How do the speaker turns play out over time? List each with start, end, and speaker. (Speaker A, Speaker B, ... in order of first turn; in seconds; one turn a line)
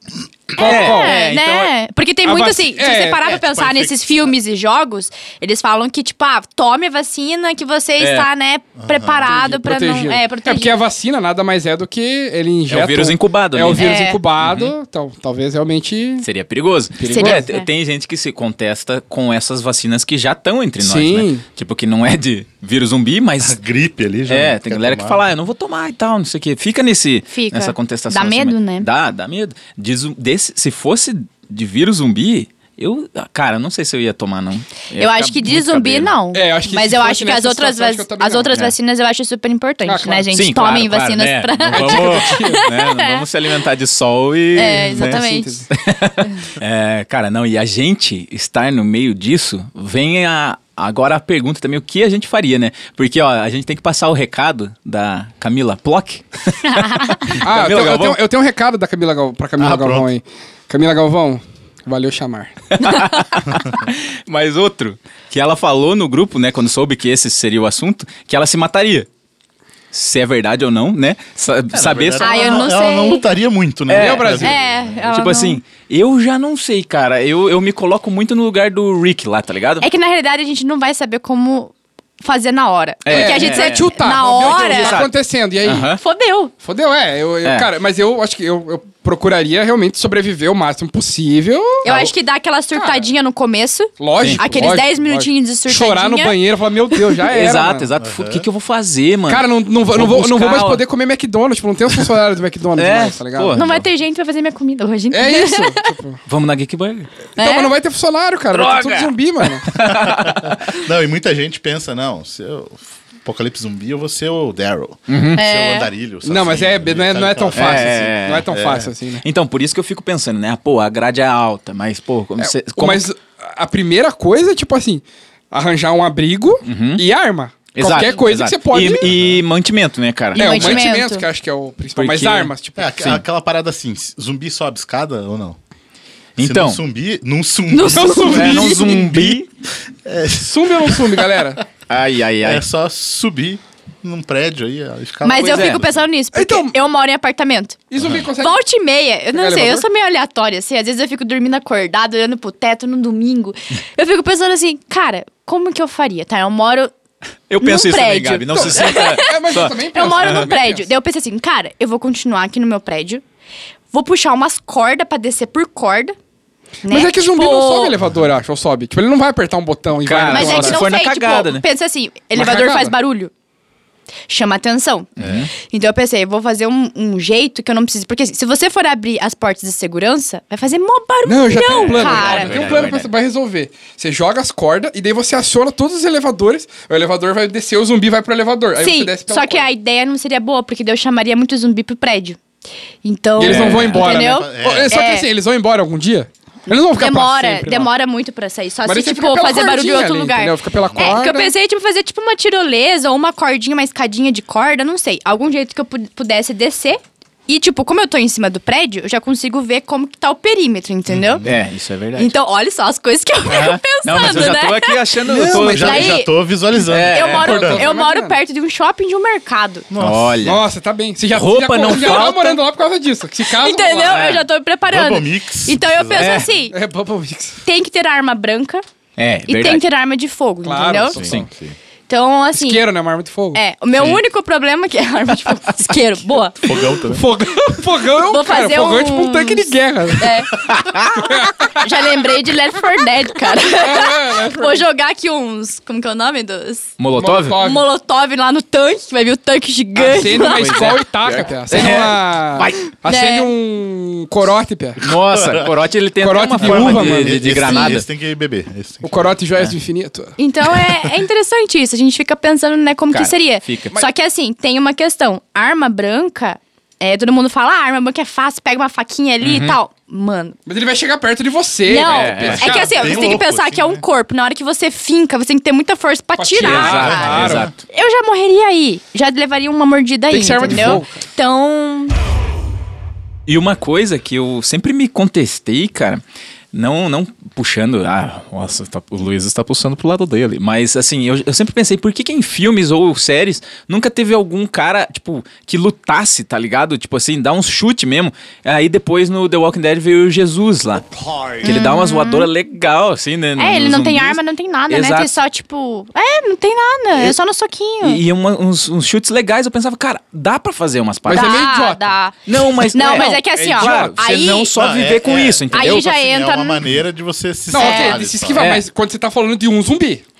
Speaker A: 0.6-1.1
Speaker B: 0.6-10.8
Speaker C: 0.6-1.7
Speaker A: 2.2-3.2
Speaker D: 3.2-4.3
Speaker C: 8.0-8.3
Speaker D: 8.8-9.3
Speaker A: 9.3-16.2
Speaker C: 12.7-14.7
Speaker B: 13.7-14.2
Speaker C: 16.2-23.6
Speaker A: 17.0-17.4
Speaker B: 17.1-17.7
Speaker A: 20.8-21.4
Speaker D: 23.4-25.2
Speaker C: 24.3-36.1
Speaker B: 27.3-28.9
Speaker B: 34.9-43.2
Speaker A: 36.3-38.5
Speaker A: 39.8-40.3
Speaker C: 40.3-45.2
Speaker A: 41.7-42.6
Speaker B: 44.5-45.6
Speaker A: 44.6-45.7
Speaker C: 45.7-58.2
Speaker B: 56.6-57.4
Speaker A: 57.4-62.8
Speaker D: 59.6-60.1
Speaker C: 62.8-69.1
Speaker C: 69.9-72.7
Speaker D: 71.7-75.0
Speaker B: 72.2-73.2
Speaker C: 73.9-74.5
Speaker A: 73.9-74.5
Speaker B: 74.4-75.6
Speaker C: 75.1-79.9
Speaker B: 79.8-85.0
Speaker C: 83.0-85.1
Speaker A: 83.1-85.9
Speaker C: 85.6-86.0
Speaker B: 86.0-86.5
Speaker A: 86.6-91.8
Speaker B: 91.8-96.3
Speaker C: 91.9-92.1
Speaker A: 94.0-97.9
Speaker C: 94.2-94.7
Speaker C: 97.3-100.8
Speaker D: 98.0-98.5
Speaker A: 99.3-103.6
Speaker C: 102.8-103.8
Speaker B: 103.5-105.8
Speaker A: 105.1-106.2
Speaker C: 106.2-107.1
Speaker A: 107.4-109.7
Speaker B: 107.4-107.7
Speaker C: 108.5-110.7
Speaker D: 109.8-118.9
Speaker C: 115.1-115.4
Speaker B: 115.4-115.9
Speaker A: 116.2-119.2
Speaker C: 117.5-118.5
Speaker C: 119.2-123.1
Speaker A: 122.4-129.1
Speaker C: 126.6-127.0
Speaker C: 127.7-130.8
Speaker D: 129.0-129.4
Speaker B: 130.3-131.2
Speaker A: 130.3-132.9
Speaker C: 132.0-133.2
Speaker D: 132.8-135.6
Speaker C: 136.4-136.8
Speaker D: 136.4-141.6
Speaker B: 137.7-138.9
Speaker A: 137.9-139.0
Speaker C: 138.3-139.5
Speaker A: 140.4-141.6
Speaker C: 141.9-142.6
Speaker D: 142.4-146.0
Speaker B: 145.2-147.8
Speaker C: 145.3-145.8
Speaker A: 146.3-146.8
Speaker A: 147.9-148.6
Speaker D: 148.0-148.2
Speaker B: 148.4-156.9
Speaker A: 149.3-149.8
Speaker C: 157.5-160.5
Speaker B: 157.6-163.2
Speaker A: 158.5-160.9
Speaker B: 163.9-166.1
Speaker B: 166.8-167.9
Speaker A: 166.9-170.8
Speaker C: 170.0-171.7
Speaker B: 170.3-173.3
Speaker A: 172.3-172.9
Speaker B: 174.3-182.8
Speaker D: 175.2-175.5
Speaker C: 175.2-175.5
Speaker A: 181.2-189.7
Speaker C: 181.7-183.1
Speaker B: 188.8-192.4
Speaker B: 193.0-195.3
Speaker A: 193.4-197.9
Speaker C: 193.4-194.1
Speaker D: 193.9-195.0
Speaker B: 197.0-211.4
Speaker A: 198.8-201.5
Speaker D: 200.9-201.2
Speaker D: 211.1-211.5
Speaker C: 211.4-212.3
Speaker B: 212.2-216.3
Speaker C: 213.4-216.2
Speaker A: 215.3-215.6
Speaker D: 215.4-217.8
Speaker C: 216.8-217.5
Speaker B: 217.1-219.9
Speaker A: 217.4-218.4
Speaker D: 219.9-220.4
Speaker C: 220.0-220.6
Speaker A: 220.4-224.3
Speaker C: 221.3-222.6
Speaker B: 223.4-226.7
Speaker C: 224.1-224.4
Speaker D: 224.9-226.5
Speaker C: 226.2-226.5
Speaker A: 226.7-227.6
Speaker B: 227.6-228.8
Speaker C: 229.2-229.8
Speaker B: 229.5-231.2
Speaker A: 230.6-231.4
Speaker D: 231.1-231.8
Speaker C: 231.2-231.4
Speaker B: 232.1-232.9
Speaker A: 232.5-233.6
Speaker B: 233.5-236.8
Speaker D: 236.6-237.2
Speaker A: 237.1-240.3
Speaker B: 238.1-240.7
Speaker C: 240.6-241.4
Speaker A: 241.2-241.8
Speaker B: 241.8-246.9
Speaker A: 243.8-244.8
Speaker C: 247.0-247.6
Speaker A: 247.2-247.9
Speaker B: 247.6-250.9
Speaker A: 249.9-255.0
Speaker C: 250.3-252.8
Speaker B: 253.0-253.5
Speaker C: 255.0-258.0
Speaker D: 255.0-255.7
Speaker A: 256.2-257.4
Speaker D: 256.6-259.4
Speaker B: 257.6-257.9
Speaker A: 259.0-260.3
Speaker B: 260.4-270.6
Speaker C: 263.1-263.9
Speaker C: 269.4-269.8
Speaker A: 270.6-273.2
Speaker B: 271.9-282.1
Speaker C: 272.0-273.1
Speaker D: 272.4-274.0
Speaker A: 276.4-277.7
Speaker C: 276.6-277.7
Speaker D: 277.0-277.7
Speaker A: 280.3-281.2
Speaker C: 280.7-281.0
Speaker C: 283.5-286.2
Speaker C: 286.7-301.1
Speaker C: 301.6-305.4
Speaker B: 301.6-302.5
Speaker B: 303.6-308.2
Speaker C: 308.0-311.7
Speaker A: 311.3-312.1
Speaker B: 311.3-314.7
Speaker C: 312.5-316.1
Speaker A: 313.0-314.2
Speaker D: 314.7-318.6
Speaker B: 315.7-316.8
Speaker A: 317.7-320.2
Speaker B: 317.7-318.2
Speaker C: 318.5-318.8